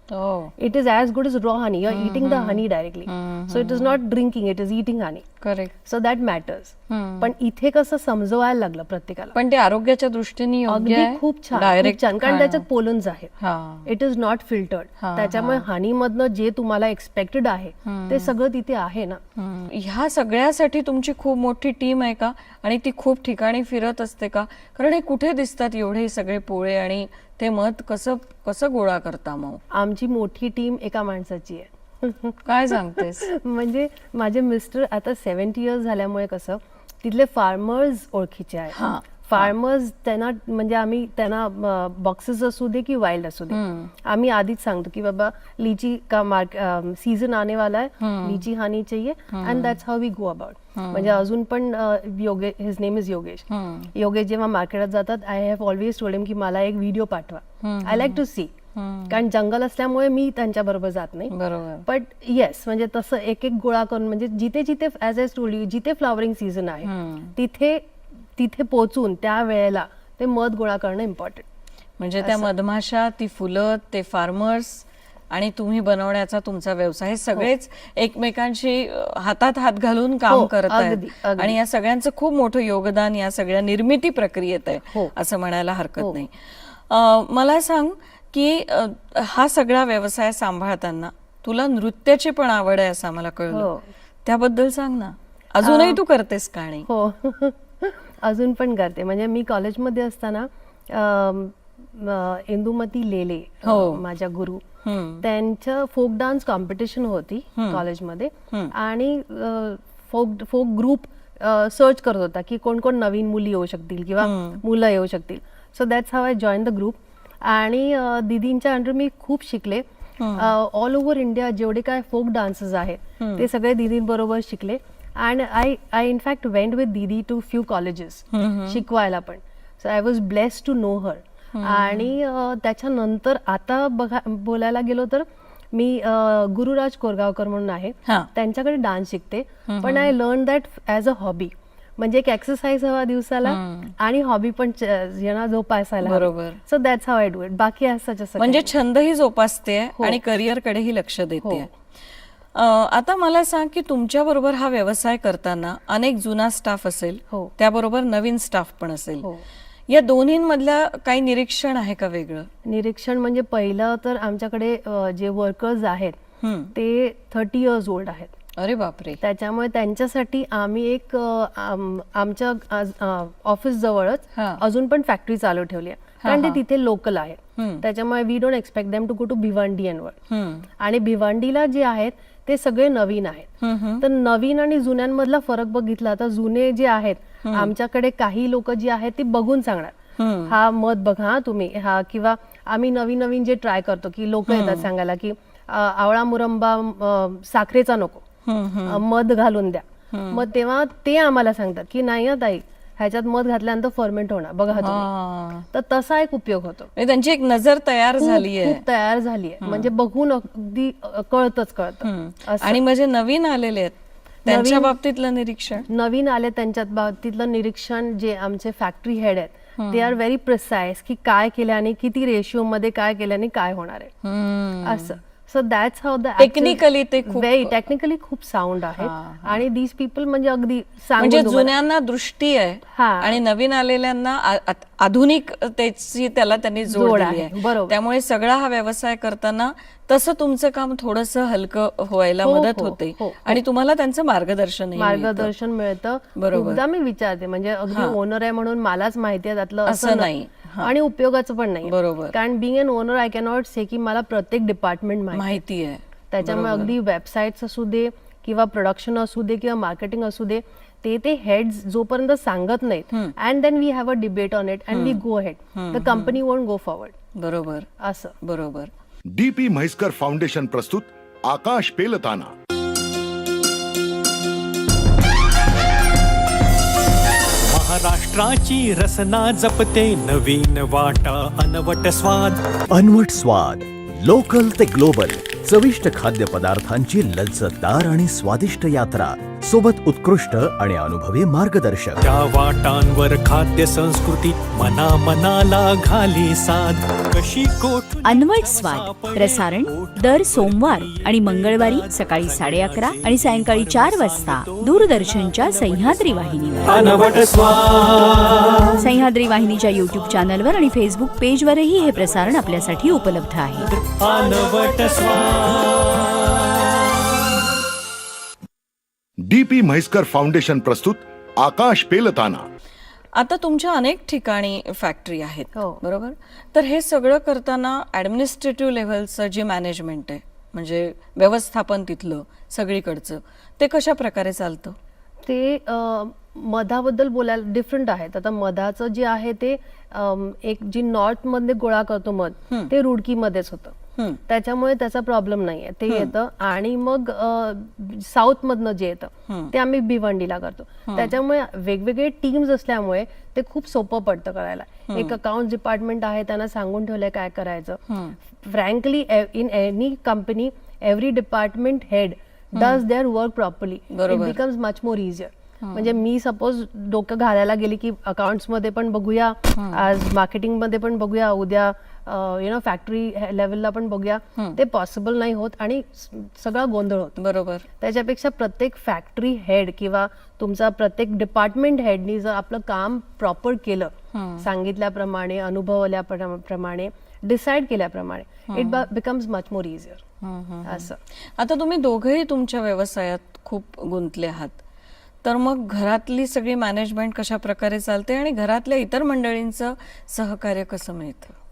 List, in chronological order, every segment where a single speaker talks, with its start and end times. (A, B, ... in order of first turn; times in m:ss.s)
0:00.1-0:00.5 A
0:00.6-0:05.3 B
0:01.9-0:04.0 A
0:05.4-0:05.8 A
0:05.8-0:09.4 B
0:06.9-0:07.3 A
0:09.4-0:12.6 A
0:10.7-0:13.3 B
0:13.4-0:13.9 A
0:13.8-0:19.2 B
0:15.0-0:15.7 A
0:17.8-0:18.3 A
0:19.4-0:29.6 A
0:29.7-0:32.4 B
0:32.5-0:33.3 A
0:33.0-0:58.6 B
0:38.7-0:39.5 A
0:43.5-0:43.9 A
0:48.0-0:48.4 A
0:49.3-0:49.8 A
0:50.8-0:51.2 A
0:53.5-0:53.9 A
0:57.6-0:58.2 A
0:58.8-0:59.2 A
0:59.1-1:01.3 B
1:01.3-1:01.8 A
1:01.9-1:07.8 B
1:06.8-1:07.4 A
1:08.4-1:11.5 B
1:12.0-1:33.7 A
1:12.2-1:12.5 B
1:20.3-1:21.6 B
1:33.5-1:33.9 B
1:34.2-1:36.9 A
1:35.6-1:36.0 B
1:36.8-1:44.6 B
1:43.7-1:44.0 A
1:44.8-1:45.2 A
1:45.2-2:28.7 B
1:47.6-1:47.8 A
1:54.2-1:54.6 A
2:00.2-2:00.5 A
2:03.2-2:03.5 A
2:08.3-2:08.8 A
2:11.5-2:12.1 A
2:19.7-2:20.1 A
2:23.4-2:23.9 A
2:26.0-2:26.6 A
2:28.4-2:31.7 A
2:31.4-2:31.7 B
2:32.6-2:39.3 A
2:39.9-2:42.5 A
2:42.6-2:46.2 B
2:46.4-2:46.7 A
2:46.7-2:48.3 B
2:48.6-2:49.2 A
2:49.2-3:00.2 B
2:54.4-2:54.6 A
2:56.2-2:56.6 A
2:57.6-2:57.8 A
3:00.3-3:00.7 A
3:00.8-3:10.0 B
3:03.6-3:04.0 A
3:07.4-3:07.7 A
3:10.2-3:10.6 A
3:10.5-3:18.2 B
3:14.5-3:14.9 A
3:18.5-3:19.0 A
3:18.9-3:25.1 B
3:20.1-3:20.4 A
3:24.7-3:25.7 A
3:25.7-3:26.9 B
3:27.0-3:28.8 A
3:28.2-3:32.8 B
3:29.6-3:29.9 A
3:32.0-3:35.9 A
3:34.4-3:34.9 B
3:35.9-3:44.1 B
3:39.8-3:40.2 A
3:44.2-3:45.2 A
3:44.8-3:51.7 B
3:46.4-3:47.8 A
3:49.0-3:49.6 A
3:51.2-4:05.5 A
3:52.9-3:53.4 B
3:56.9-3:58.0 B
4:02.4-4:03.6 B
4:05.0-4:15.6 B
4:06.4-4:06.8 A
4:07.9-4:08.2 A
4:09.9-4:10.9 A
4:11.8-4:12.4 A
4:15.3-4:17.0 A
4:16.3-4:27.2 B
4:24.9-4:25.2 A
4:25.8-4:26.4 A
4:27.4-4:27.9 A
4:28.0-4:28.4 B
4:28.4-4:28.9 A
4:29.3-4:32.5 C
4:37.7-4:42.6 D
4:42.9-4:52.2 E
4:52.2-5:10.6 D
4:58.2-5:07.5 F
5:09.0-5:13.9 F
5:11.9-5:13.2 D
5:13.8-5:16.8 D
5:19.4-5:22.6 C
5:23.4-5:35.0 A
5:25.8-5:26.0 B
5:35.4-5:44.0 B
5:44.5-5:58.0 B
5:49.5-5:49.7 A
5:51.1-5:51.4 A
5:55.1-5:55.4 A
5:58.1-5:58.4 A
5:58.6-6:17.4 B
6:02.8-6:03.0 A
6:04.1-6:04.6 A
6:05.8-6:06.2 A
6:09.8-6:10.0 A
6:17.4-6:17.9 A
6:18.0-6:30.2 B
6:24.3-6:24.7 A
6:28.7-6:29.1 A
6:30.4-6:34.8 A
6:30.8-6:31.2 B
6:35.4-6:41.6 A